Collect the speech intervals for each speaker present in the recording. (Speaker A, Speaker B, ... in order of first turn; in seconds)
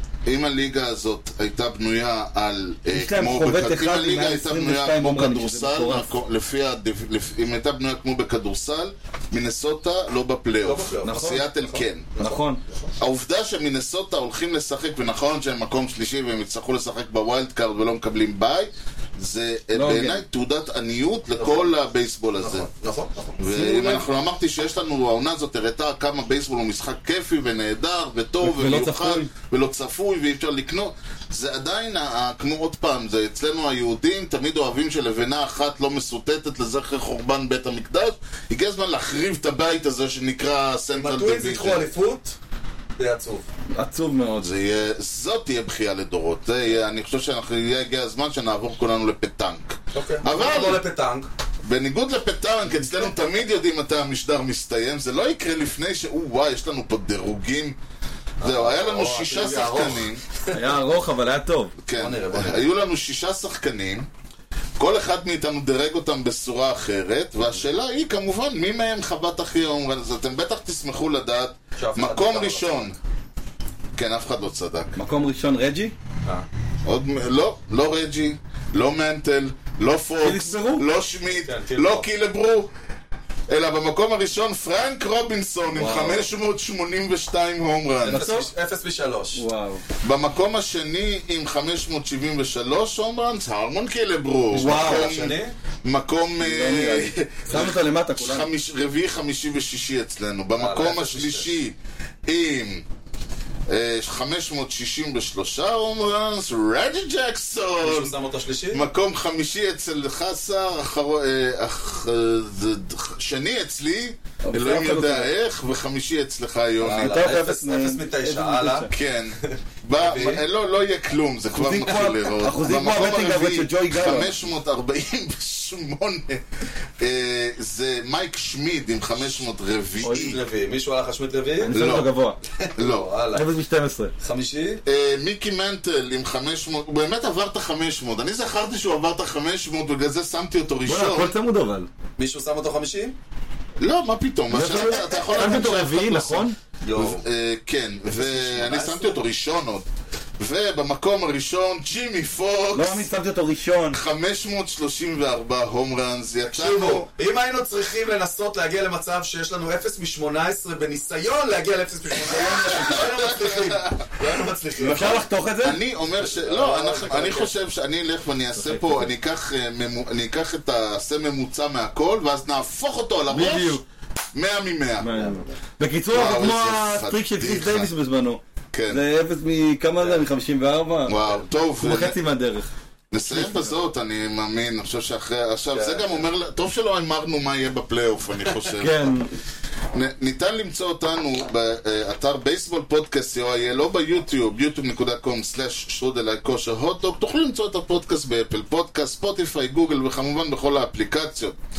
Speaker A: 0.3-12.1, 13.0-22.7, 23.4-41.9, 44.4-50.8, 51.6-57.8, 58.4-60.2, 61.8-64.1, 64.8-73.0, 73.9-75.0, 76.8-82.7, 83.5-88.2, 90.0-102.8, 103.7-108.2, 108.7-117.3, 118.9-130.4, 131.7-132.1, 132.8-133.1, 134.8-141.3, 143.8-149.9, 150.4-153.1, 153.9-157.1, 162.2-164.2, 165.6-173.8, 174.3-175.1, 176.1-177.9, 178.7-179.0, 181.1-182.2, 183.1-189.1, 189.9-201.6
Speaker B: 2.9-6.2, 11.0-11.5, 12.2-12.6, 19.7-20.2, 23.5-24.1, 28.4-29.3, 43.7-44.5, 60.5-61.7, 75.0-75.9, 80.2-80.8, 85.7-86.3, 88.0-88.5, 89.3-89.8, 94.5-95.1, 96.4-98.5, 114.4-115.3, 116.8-118.9, 121.5-124.3, 130.0-130.4, 131.6-132.4, 133.3-134.1, 140.8-141.9, 144.5-146.6, 152.7-154.0, 164.8-165.8, 168.7-169.0, 173.3-173.8, 175.0-181.2, 181.8-182.7, 183.4-183.6, 188.8-189.3
Speaker C: 10.6-12.9, 21.3-21.7, 22.4-23.3, 40.9-42.4, 43.0-43.5, 49.9-51.3, 58.4-60.7, 62.0-62.7, 71.8-72.9, 81.3-82.1, 88.0-89.4, 94.5-95.5, 100.5-101.5, 107.8-108.8, 116.8-118.9, 119.4-120.4, 130.0-131.7, 132.6-133.5, 134.2-134.8, 142.2-143.2, 146.8-147.2, 148.1-149.2, 156.5-165.2, 166.2-167.5, 175.1-175.6, 180.0-180.3, 185.7-186.3